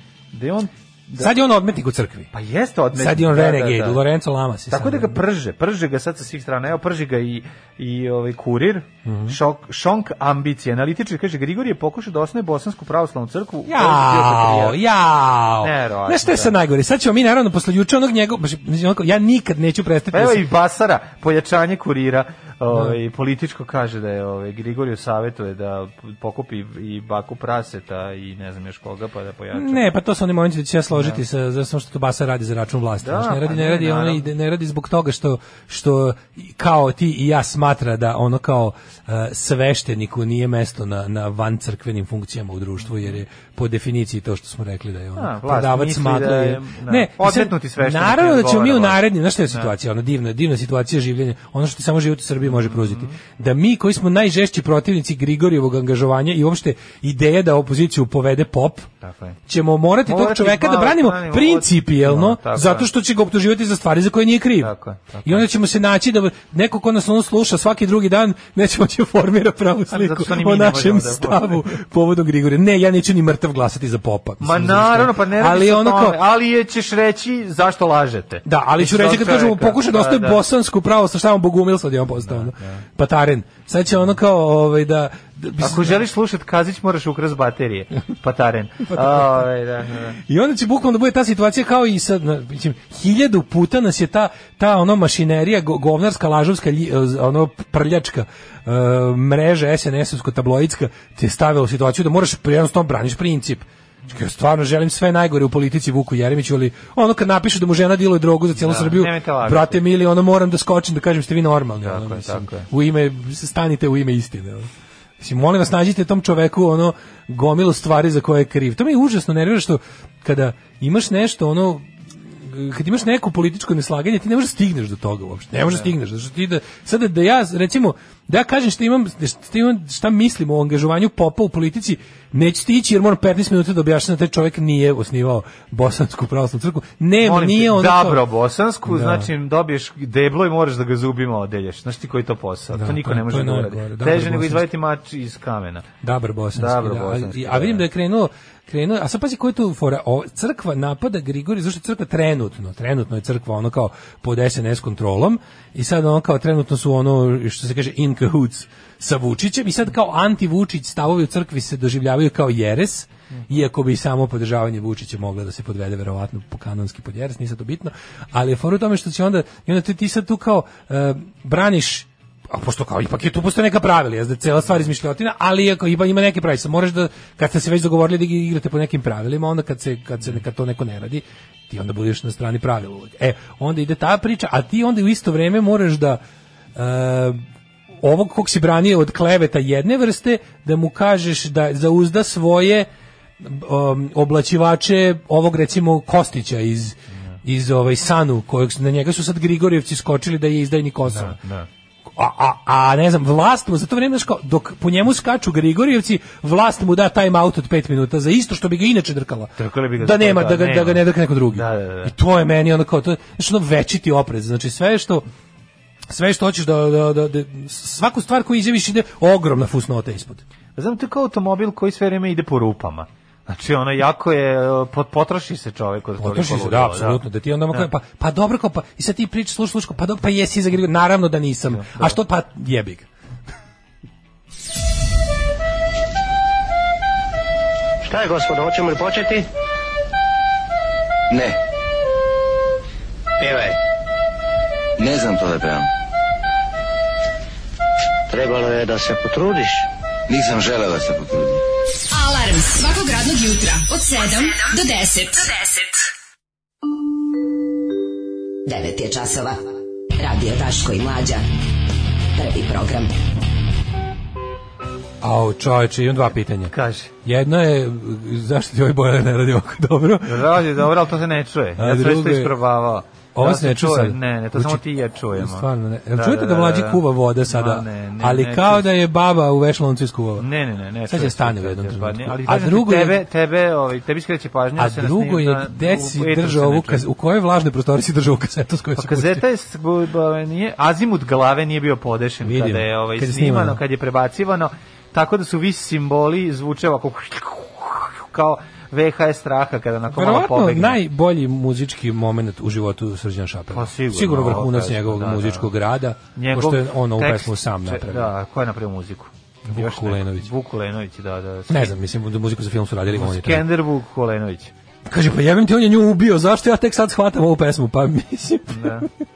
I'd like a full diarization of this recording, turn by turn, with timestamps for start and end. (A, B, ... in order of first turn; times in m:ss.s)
0:00.3-0:01.3 A
0:01.2-0:02.3 B
0:02.3-0:04.0 A
0:02.9-0:05.2 B
0:04.7-0:14.8 A
0:09.0-0:09.4 B
0:13.7-0:20.4 B
0:15.6-0:16.6 A
0:20.1-0:29.8 A
0:22.7-0:23.0 B
0:29.5-0:58.9 B
0:30.9-0:31.2 A
0:33.0-0:34.3 A
0:45.2-0:49.7 A
0:52.4-0:53.2 A
0:59.0-0:59.4 A
0:59.5-1:04.7 B
1:00.1-1:02.9 A
1:04.6-1:05.5 A
1:05.2-1:16.2 B
1:09.9-1:11.8 A
1:14.4-1:20.4 A
1:18.4-1:26.0 B
1:22.2-1:22.8 A
1:25.6-1:30.2 A
1:28.9-1:29.4 B
1:30.2-2:18.2 B
1:48.6-1:49.8 A
1:51.8-1:52.7 A
2:17.2-2:25.9 A
2:18.9-2:19.3 B
2:22.7-2:24.6 B
2:26.0-3:06.2 B
2:26.6-2:27.8 A
3:06.8-3:07.4 B
3:08.0-3:12.9 B
3:13.4-3:21.4 B
3:21.1-3:21.7 A
3:22.1-3:35.2 B
3:29.6-3:32.1 A
3:36.1-3:40.4 B
3:40.8-3:47.9 A
3:46.2-3:53.1 B
3:51.7-3:52.2 A
3:58.0-3:59.5 C
4:01.3-4:01.6 D
4:03.4-4:03.8 C
4:05.0-4:05.9 D
4:08.3-4:09.9 C
4:10.3-4:11.6 D
4:12.1-4:15.9 E
4:18.7-4:19.6 F
4:20.2-4:21.4 F
4:22.4-4:23.1 F
4:25.2-4:30.8 B
4:26.7-4:27.1 A
4:30.2-4:38.9 A
4:31.8-4:32.6 B
4:33.3-4:40.5 B
4:40.4-4:47.0 A
4:41.1-4:43.2 B
4:44.8-4:49.4 B
4:49.0-5:01.0 A
4:52.4-4:53.8 B
5:00.1-5:08.3 B
5:03.7-5:05.7 A
5:06.4-5:12.0 A
5:09.7-5:10.5 B
5:11.7-5:13.7 B
5:13.1-5:14.7 A
5:15.1-5:19.1 B
5:18.7-5:19.1 A